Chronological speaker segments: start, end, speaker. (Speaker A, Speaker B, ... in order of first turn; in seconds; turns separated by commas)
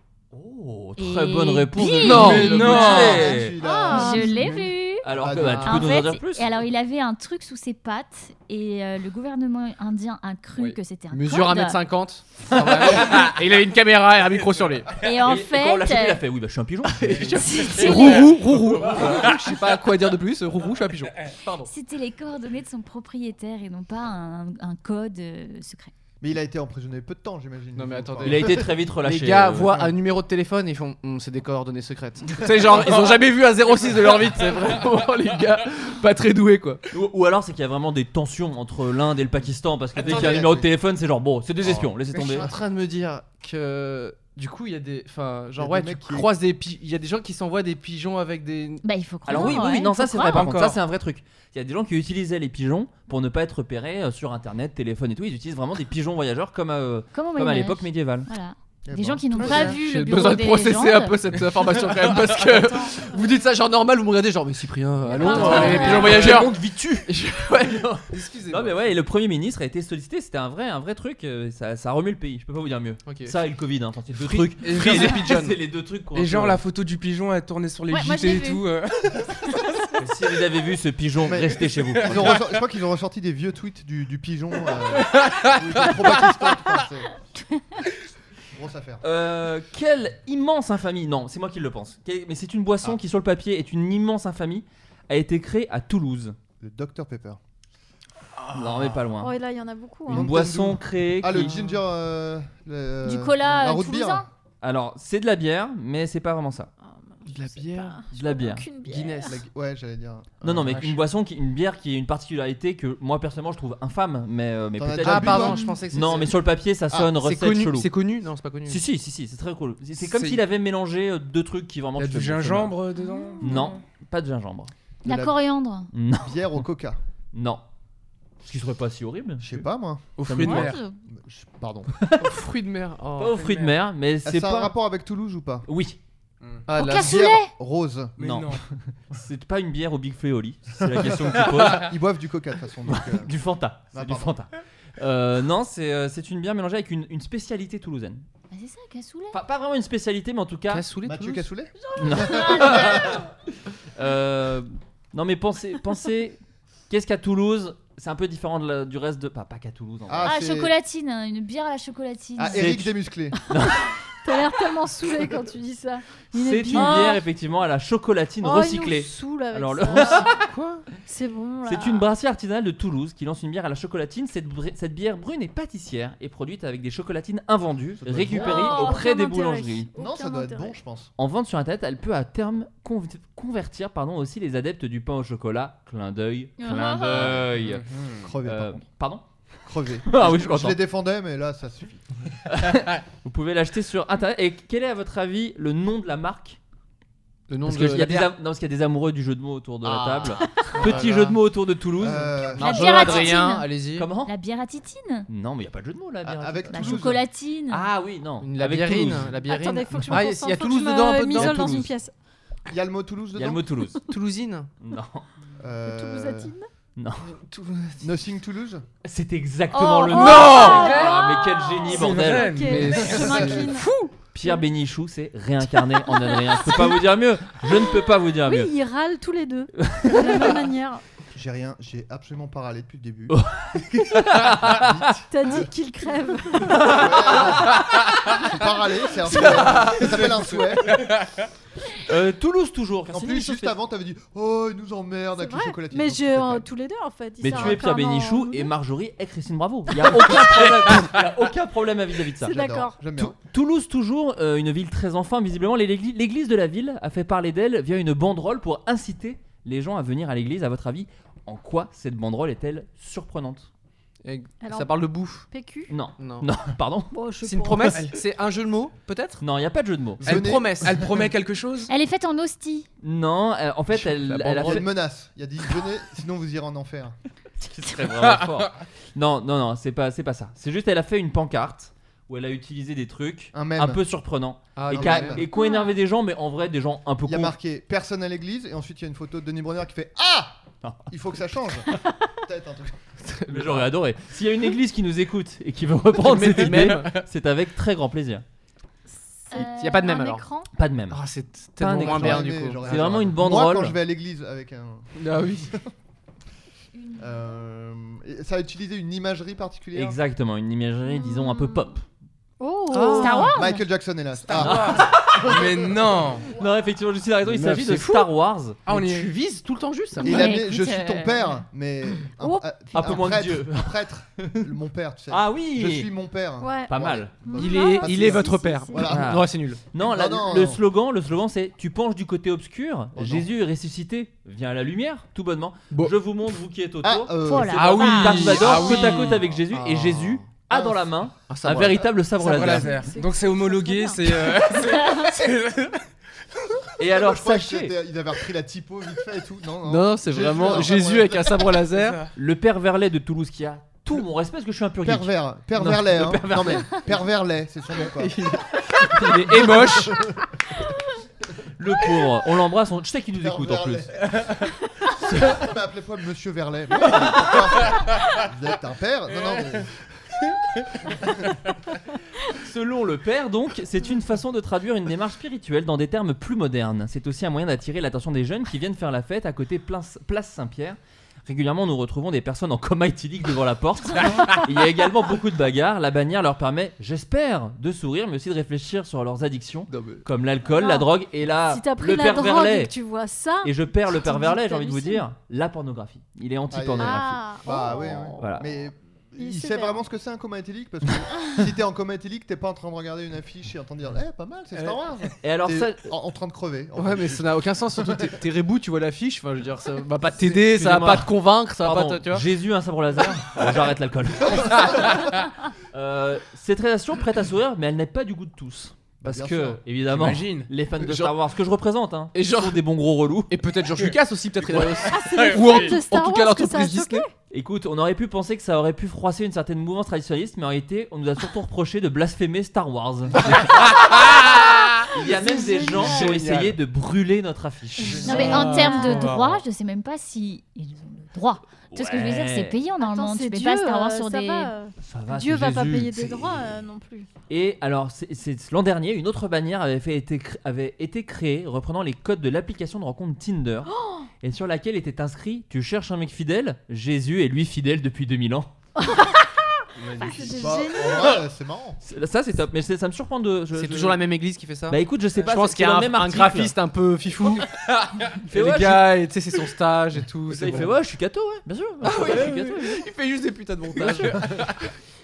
Speaker A: 0.3-3.6, Speaker B: 1.0-3.3, Speaker C: 2.0-3.4, Speaker D: 2.0-2.6, Speaker E: 2.7-5.9, Speaker F: 3.6-4.3, Speaker B: 3.9-5.0, Speaker A: 5.0-6.5, Speaker D: 5.3-5.8, Speaker B: 5.6-11.8, Speaker D: 10.6-15.0, Speaker B: 15.0-16.2, Speaker A: 15.2-17.4, Speaker D: 16.9-21.7, Speaker B: 17.4-18.3, Speaker C: 17.6-19.3, Speaker B: 21.7-25.9, Speaker E: 26.2-28.7, Speaker D: 27.8-36.9, Speaker A: 28.2-29.8, Speaker A: 36.9-42.5, Speaker E: 40.0-40.7, Speaker D: 40.0-40.4, Speaker D: 41.7-49.6, Speaker E: 41.7-42.5, Speaker E: 45.5-46.3, Speaker B: 48.8-50.5, Speaker A: 49.3-58.3, Speaker C: 50.3-50.8, Speaker B: 57.1-61.2, Speaker E: 58.9-59.8, Speaker D: 59.4-68.3, Speaker B: 62.5-62.9, Speaker B: 65.2-66.0, Speaker F: 65.2-66.3, Speaker A: 65.3-67.1, Speaker C: 68.1-68.7, Speaker A: 68.5-76.6, Speaker D: 73.1-73.3, Speaker D: 74.1-75.6, Speaker C: 74.7-75.2, Speaker C: 76.1-79.9, Speaker B: 77.9-78.6, Speaker A: 80.0-82.3, Speaker E: 81.2-87.1, Speaker C: 82.0-82.4, Speaker C: 84.9-86.7, Speaker E: 88.5-89.0, Speaker A: 89.0-96.4, Speaker E: 96.6-97.4, Speaker A: 98.5-99.3, Speaker F: 99.2-100.3, Speaker A: 100.1-101.6, Speaker E: 100.1-104.3, Speaker B: 103.0-104.3, Speaker A: 104.6-106.7, Speaker F: 106.9-109.4, Speaker D: 107.3-108.0, Speaker A: 108.1-108.7, Speaker D: 108.8-109.4, Speaker E: 109.3-111.0, Speaker A: 110.4-117.9, Speaker E: 114.8-115.7, Speaker D: 115.0-116.4, Speaker D: 117.1-118.8, Speaker A: 118.7-122.8, Speaker C: 120.0-120.4, Speaker C: 122.0-123.8, Speaker B: 123.0-123.6, Speaker A: 123.4-124.7, Speaker B: 125.0-125.9, Speaker E: 125.0-125.3, Speaker A: 125.9-126.6, Speaker E: 126.2-127.0, Speaker A: 127.3-127.6, Speaker A: 128.4-129.6, Speaker E: 129.4-130.1, Speaker C: 130.2-130.8, Speaker A: 130.2-130.8, Speaker B: 130.4-130.9, Speaker E: 131.1-131.9, Speaker A: 131.9-132.3, Speaker D: 132.2-133.4, Speaker A: 133.2-134.7, Speaker C: 133.3-133.7, Speaker E: 134.2-135.7, Speaker A: 135.7-136.0, Speaker D: 136.7-137.3, Speaker B: 136.7-137.5, Speaker E: 136.8-138.1, Speaker C: 138.2-138.6, Speaker A: 138.2-141.9, Speaker E: 140.8-143.3, Speaker A: 142.9-148.2, Speaker E: 143.9-144.4, Speaker B: 148.5-149.4, Speaker A: 149.3-150.8, Speaker D: 150.7-151.5, Speaker E: 151.1-153.1, Speaker A: 152.0-153.3, Speaker F: 152.1-152.9, Speaker A: 153.9-156.4, Speaker A: 156.9-160.4, Speaker E: 160.1-160.7, Speaker B: 160.2-162.8, Speaker E: 162.4-163.4, Speaker A: 162.5-162.9, Speaker A: 163.5-163.9, Speaker F: 164.2-167.2, Speaker A: 166.3-170.3, Speaker B: 166.7-167.2, Speaker F: 168.4-172.1, Speaker D: 169.9-170.9, Speaker A: 171.6-179.9, Speaker E: 178.0-178.5, Speaker F: 178.4-180.8, Speaker B: 178.4-179.1, Speaker E: 180.0-181.1, Speaker A: 181.2-187.8, Speaker B: 186.6-187.4, Speaker C: 187.6-188.2, Speaker E: 188.2-188.8, Speaker A: 188.4-189.2, Speaker E: 189.7-192.1, Speaker A: 190.1-190.8, Speaker A: 192.5-196.6, Speaker D: 197.5-198.3, Speaker A: 197.7-202.5, Speaker E: 199.8-201.4, Speaker D: 200.8-201.3, Speaker E: 202.0-203.3, Speaker D: 202.5-204.1, Speaker B: 202.6-203.7, Speaker A: 204.0-204.3, Speaker B: 204.3-205.3, Speaker A: 205.3-207.0, Speaker E: 206.2-207.2, Speaker B: 206.7-207.9, Speaker A: 207.7-209.4, Speaker D: 208.4-211.8, Speaker F: 209.4-212.1, Speaker A: 211.3-211.9, Speaker E: 212.7-213.6, Speaker A: 213.3-214.0, Speaker D: 214.1-214.7, Speaker A: 214.8-215.2, Speaker E: 215.6-216.5, Speaker F: 215.8-216.7, Speaker A: 217.0-217.3, Speaker D: 217.3-218.0, Speaker E: 218.0-218.8, Speaker A: 219.0-222.7, Speaker F: 219.7-224.6, Speaker C: 220.1-221.3, Speaker C: 221.9-223.6, Speaker D: 222.6-223.9, Speaker A: 224.3-228.7, Speaker F: 226.1-226.9, Speaker F: 228.4-231.0, Speaker A: 229.8-230.6, Speaker E: 231.3-233.4, Speaker A: 233.3-235.2, Speaker E: 234.5-235.7, Speaker F: 235.3-237.0, Speaker E: 236.6-241.1, Speaker A: 236.7-237.5, Speaker C: 238.0-238.4, Speaker C: 239.4-240.3, Speaker D: 239.7-240.1, Speaker C: 240.9-241.3, Speaker A: 242.1-243.8, Speaker E: 243.1-246.7, Speaker F: 245.4-248.7, Speaker A: 247.4-252.6, Speaker F: 252.4-253.0, Speaker E: 252.5-253.4, Speaker A: 253.1-263.7, Speaker D: 264.2-265.5, Speaker F: 264.6-265.9, Speaker A: 265.9-267.2, Speaker D: 266.2-266.5, Speaker F: 267.1-268.0, Speaker D: 267.4-269.4, Speaker A: 269.4-270.3, Speaker E: 270.2-271.0, Speaker D: 270.2-271.0, Speaker C: 270.2-271.9, Speaker B: 271.9-272.9, Speaker A: 273.0-274.9, Speaker D: 274.0-274.9, Speaker E: 274.6-277.1, Speaker A: 277.6-287.6, Speaker C: 278.1-278.7, Speaker E: 283.5-284.0, Speaker D: 284.8-285.4, Speaker E: 284.9-285.5, Speaker B: 285.6-286.0, Speaker E: 287.2-290.6, Speaker E: 291.1-293.2, Speaker D: 293.3-293.9, Speaker A: 293.5-298.4, Speaker D: 296.1-297.2, Speaker F: 299.4-300.7, Speaker B: 299.5-300.1, Speaker D: 299.5-300.4, Speaker A: 300.7-301.2, Speaker D: 301.1-303.3, Speaker A: 301.8-304.0, Speaker E: 301.9-305.1, Speaker D: 305.2-305.7, Speaker B: 306.9-307.4, Speaker E: 307.2-310.2, Speaker A: 309.9-312.1, Speaker F: 311.2-311.8, Speaker F: 312.6-313.6, Speaker D: 312.9-313.5, Speaker B: 313.1-313.8, Speaker E: 313.5-316.1, Speaker C: 314.4-316.5, Speaker A: 314.6-315.6, Speaker A: 316.5-318.8, Speaker D: 317.4-318.3, Speaker C: 318.9-319.3, Speaker D: 318.9-320.6, Speaker B: 320.2-321.6, Speaker E: 320.2-330.8, Speaker F: 322.4-323.1, Speaker A: 322.9-324.7, Speaker A: 325.3-326.1, Speaker F: 326.6-329.2, Speaker A: 326.9-327.3, Speaker D: 327.6-329.8, Speaker A: 329.1-342.9, Speaker E: 333.2-333.5, Speaker E: 337.0-338.1, Speaker B: 337.4-339.3, Speaker C: 337.7-339.5, Speaker D: 339.7-340.4, Speaker E: 340.7-341.0, Speaker D: 341.5-342.6, Speaker C: 342.4-346.1, Speaker F: 342.6-344.6, Speaker A: 347.0-348.0, Speaker E: 347.0-351.8, Speaker D: 349.9-352.2, Speaker C: 351.9-352.3, Speaker A: 352.4-355.3, Speaker E: 355.0-358.4, Speaker D: 355.8-357.1, Speaker D: 358.1-360.3, Speaker E: 359.5-360.3, Speaker A: 361.8-364.1, Speaker E: 363.4-364.6, Speaker E: 365.3-370.0, Speaker A: 372.4-392.9, Speaker D: 389.9-390.2, Speaker F: 390.6-395.3, Speaker A: 393.6-397.5, Speaker E: 396.7-408.4, Speaker F: 397.0-398.5, Speaker A: 398.4-398.7, Speaker F: 399.4-400.0, Speaker C: 404.7-405.0, Speaker A: 405.4-406.1, Speaker D: 407.0-412.4, Speaker A: 410.6-423.5, Speaker C: 414.9-415.3, Speaker E: 419.2-419.8, Speaker C: 420.1-420.7, Speaker D: 421.0-421.4, Speaker D: 422.3-422.8, Speaker D: 423.5-427.2, Speaker C: 423.9-425.9, Speaker F: 425.1-427.3, Speaker A: 427.5-439.3, Speaker C: 433.6-435.1, Speaker F: 435.3-436.4, Speaker C: 436.0-436.7, Speaker F: 438.1-439.3, Speaker C: 438.1-439.6, Speaker B: 438.2-444.7, Speaker A: 441.9-442.8, Speaker F: 443.0-447.3, Speaker A: 445.0-446.8, Speaker A: 447.5-458.7, Speaker F: 453.9-454.3, Speaker F: 459.0-459.3, Speaker C: 460.0-460.8, Speaker F: 460.2-461.4, Speaker E: 460.6-462.0, Speaker A: 462.0-464.2, Speaker D: 463.7-467.8, Speaker A: 464.9-466.8, Speaker C: 467.7-468.3, Speaker A: 468.5-469.1, Speaker D: 468.5-470.9, Speaker A: 470.5-473.0, Speaker D: 472.0-474.7, Speaker C: 474.0-474.8